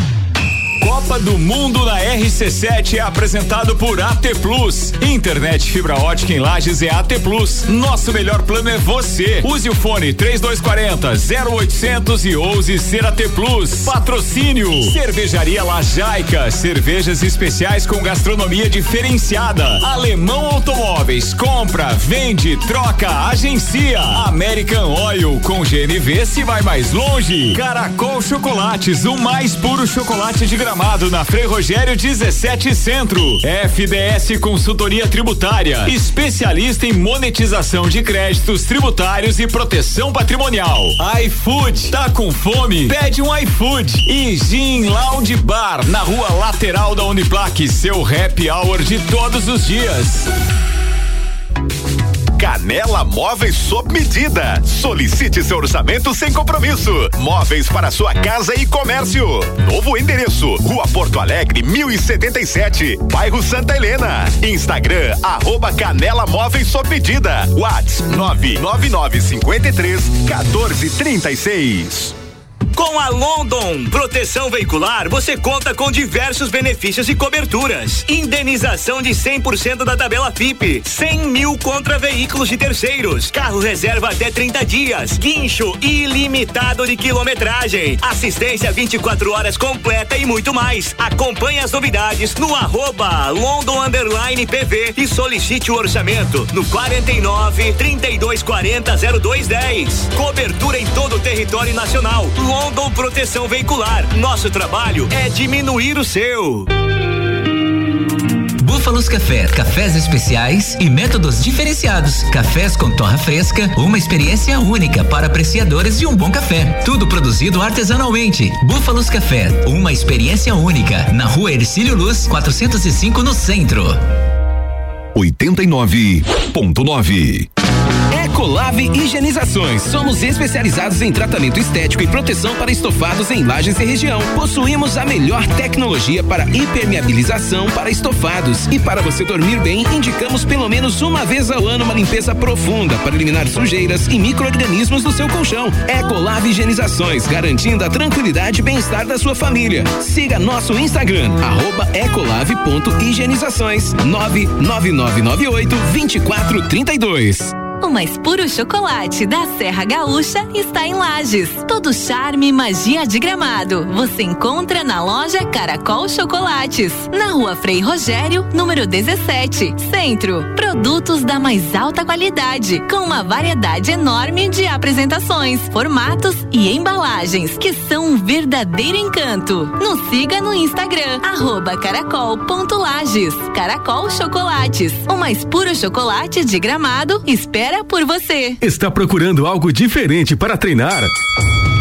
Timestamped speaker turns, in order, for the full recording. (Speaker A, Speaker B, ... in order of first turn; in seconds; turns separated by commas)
Speaker A: 0.8-50.3, Speaker B: 52.4-72.1, Speaker C: 72.7-106.7, Speaker D: 108.6-124.0, Speaker B: 125.1-127.5, Speaker E: 128.1-157.6, Speaker F: 157.8-188.6, Speaker G: 188.6-191.1